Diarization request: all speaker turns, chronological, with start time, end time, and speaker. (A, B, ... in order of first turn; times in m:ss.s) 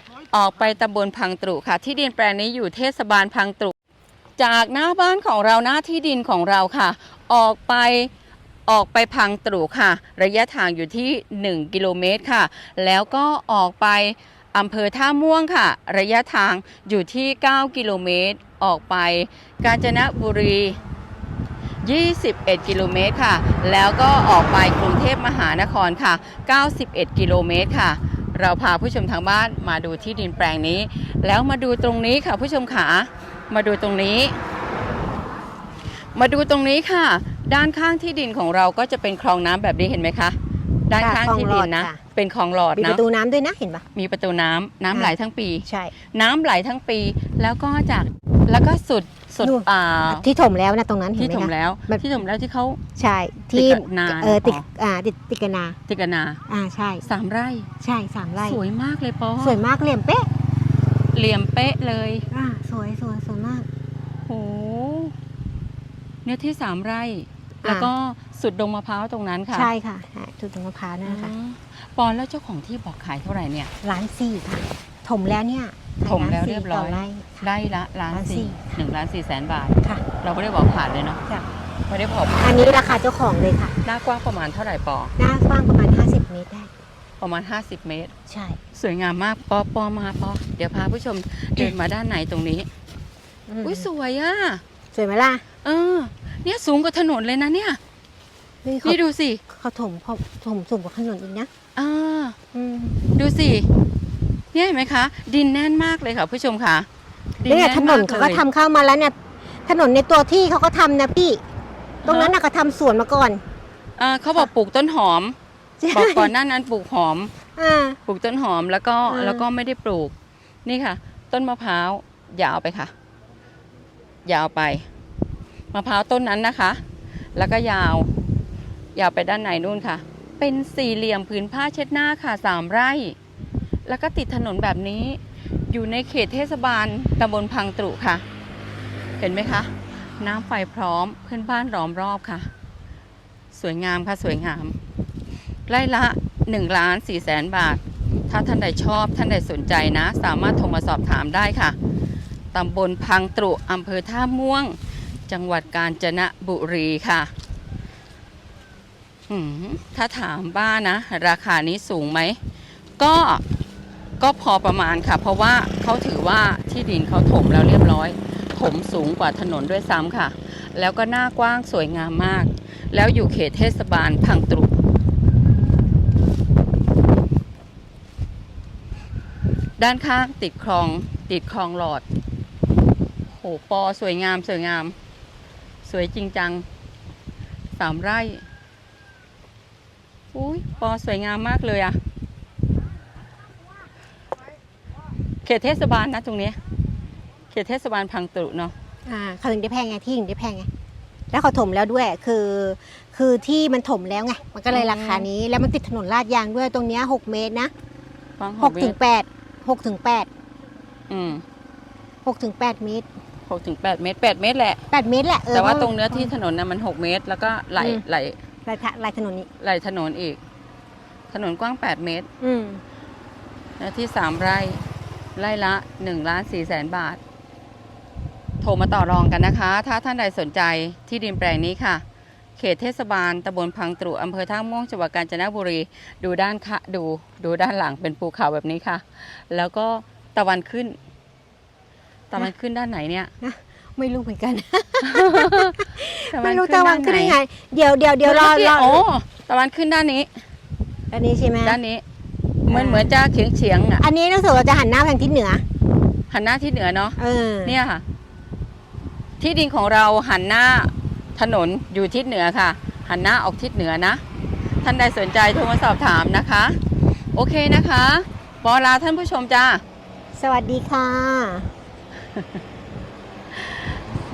0:00.3-0:03.7 A
0:04.4-0:08.1 A
0:08.7-0:20.8 A
0:21.8-0:34.4 A
0:36.1-0:40.4 A
0:40.9-0:43.0 A
0:41.0-0:42.0 B
0:42.8-0:43.8 B
0:43.9-0:50.2 A
0:45.6-0:45.9 B
0:49.4-0:52.0 B
0:51.2-0:52.8 A
0:53.0-0:55.8 B
0:53.5-0:54.6 A
0:55.9-0:56.4 A
0:56.5-0:57.0 B
0:57.0-0:57.7 A
0:57.8-0:58.6 B
0:58.4-0:59.6 A
0:59.4-1:00.3 B
1:01.1-1:02.2 A
1:02.3-1:03.7 B
1:04.3-1:05.1 A
1:06.2-1:09.7 A
1:07.6-1:07.9 B
1:09.5-1:11.3 B
1:11.0-1:13.7 A
1:13.8-1:17.4 B
1:16.0-1:21.2 A
1:18.1-1:18.7 B
1:21.9-1:22.7 A
1:22.4-1:23.8 B
1:23.8-1:25.1 A
1:25.2-1:26.7 B
1:27.2-1:28.1 A
1:28.3-1:28.6 B
1:28.7-1:32.7 A
1:33.5-1:33.8 B
1:33.6-1:34.6 A
1:34.9-1:35.4 B
1:35.6-1:37.8 A
1:38.6-1:39.0 B
1:38.8-1:39.4 A
1:39.5-1:41.5 B
1:41.8-1:42.4 A
1:42.5-1:43.0 B
1:43.1-1:43.7 A
1:44.5-1:46.9 A
1:47.4-1:48.4 A
1:47.5-1:51.4 B
1:52.0-1:52.3 A
1:52.0-1:53.4 B
1:54.0-1:55.4 A
1:55.8-1:56.3 B
1:55.9-1:57.3 A
1:57.6-1:58.0 B
1:58.0-2:00.1 A
1:59.1-1:59.4 B
2:00.6-2:02.9 A
2:04.2-2:04.8 A
2:05.7-2:06.8 A
2:07.3-2:08.1 A
2:08.9-2:13.2 A
2:13.8-2:18.2 A
2:19.2-2:22.5 A
2:23.5-2:24.8 A
2:25.7-2:31.8 A
2:32.5-2:37.3 A
2:39.3-2:42.4 A
2:43.0-2:43.4 A
2:44.2-2:54.8 A
2:59.8-3:02.0 A
3:03.3-3:05.0 A
3:05.8-3:06.6 A
3:07.8-3:08.4 A
3:10.3-3:12.0 A
3:15.4-3:16.6 A
3:17.5-3:18.7 A
3:19.0-3:20.7 B
3:21.3-3:27.7 B
3:24.7-3:25.3 A
3:28.4-3:29.0 A
3:28.6-3:30.3 B
3:31.1-3:31.4 A
3:32.2-3:33.1 B
3:33.5-3:34.8 A
3:34.9-3:36.3 B
3:35.5-3:38.4 A
3:37.8-3:38.0 B
3:38.6-3:39.5 B
3:39.6-3:40.4 A
3:41.3-3:42.3 A
3:42.4-3:42.8 B
3:43.8-3:44.8 A
3:45.4-3:47.2 A
3:48.6-3:52.0 A
3:52.6-4:01.0 A
4:02.3-4:03.3 A
4:03.4-4:09.0 B
4:05.0-4:07.4 A
4:08.2-4:10.3 A
4:11.1-4:11.8 B
4:11.6-4:12.0 A
4:12.6-4:14.0 A
4:12.7-4:13.1 B
4:14.0-4:15.6 B
4:16.3-4:18.0 A
4:17.2-4:17.7 B
4:19.4-4:24.2 A
4:24.8-4:26.8 A
4:27.3-4:29.8 A
4:30.4-4:31.7 B
4:32.3-4:32.6 A
4:33.5-4:34.0 A